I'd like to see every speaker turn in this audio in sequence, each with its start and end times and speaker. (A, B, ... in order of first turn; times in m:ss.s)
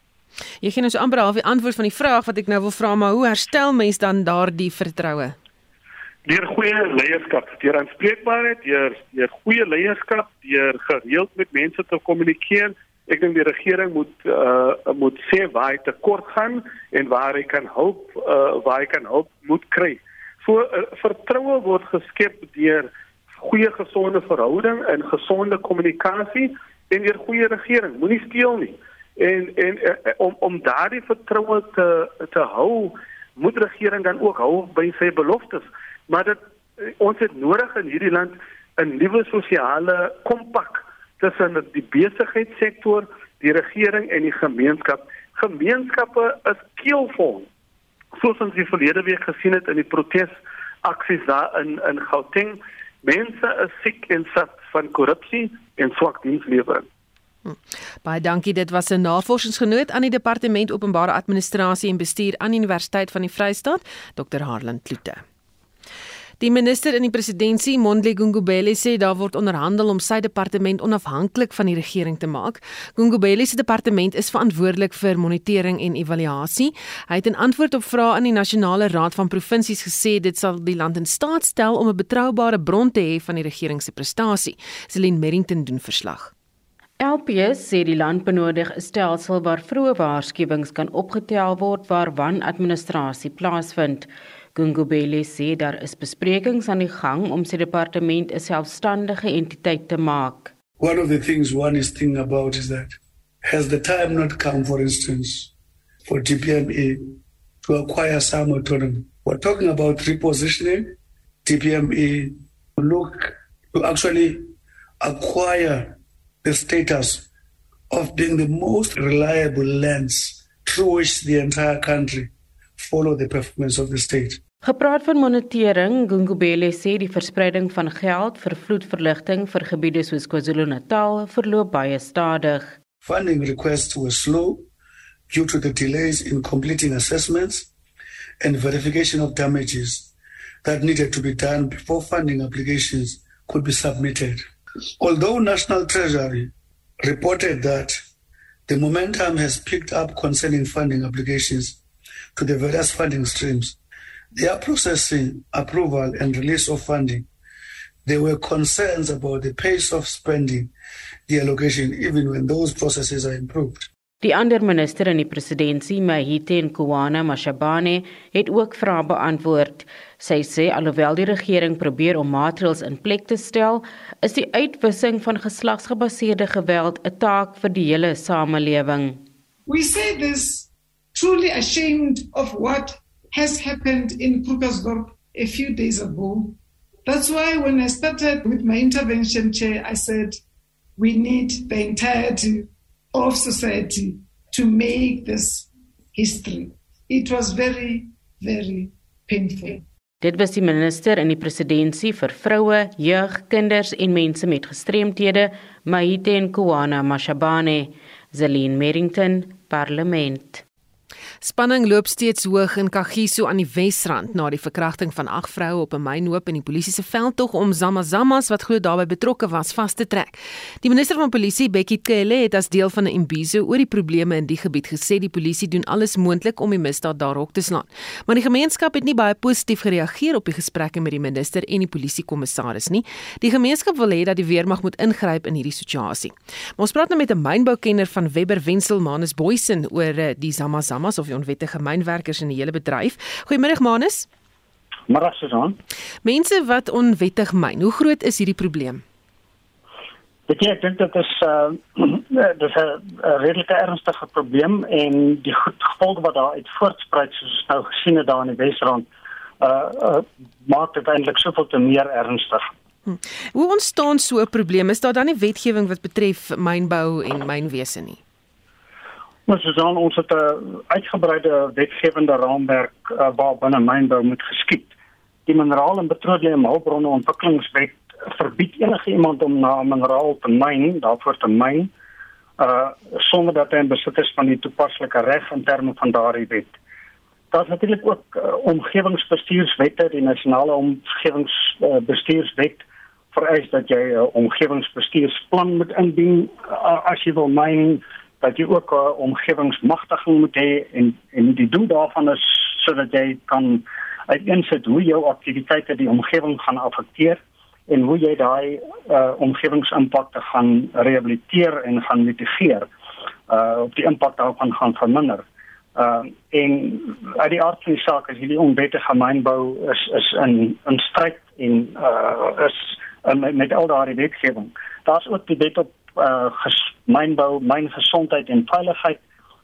0:00.6-0:05.3 A
0:06.2-0:47.5 B
0:48.2-0:56.9 B
0:57.4-1:05.2 A
1:06.4-1:26.3 A
1:27.0-1:40.5 C
1:40.8-1:45.5 D
1:46.1-1:57.2 D
1:57.9-2:04.4 D
2:04.6-2:12.8 C
2:13.0-2:14.6 D
2:15.3-2:17.7 D
2:18.4-2:20.1 D
2:20.6-2:24.4 D
2:25.0-2:28.0 D
2:28.7-2:31.8 D
2:32.3-2:33.8 D
2:34.3-2:37.3 D
2:38.0-2:40.7 D
2:41.3-2:43.9 D
2:44.2-2:59.2 C
2:59.7-3:10.4 E
3:11.0-3:19.8 E
3:20.2-3:30.6 C
3:31.4-4:04.3 A
4:05.1-4:05.8 F
4:06.2-4:09.0 A
4:10.5-4:19.1 F
4:19.6-4:22.7 F
4:23.1-4:28.2 A
4:29.5-4:34.9 F
4:35.5-4:41.9 F
4:42.6-4:46.7 F
4:47.5-5:12.9 F
5:13.5-5:15.4 F
5:16.0-5:29.2 F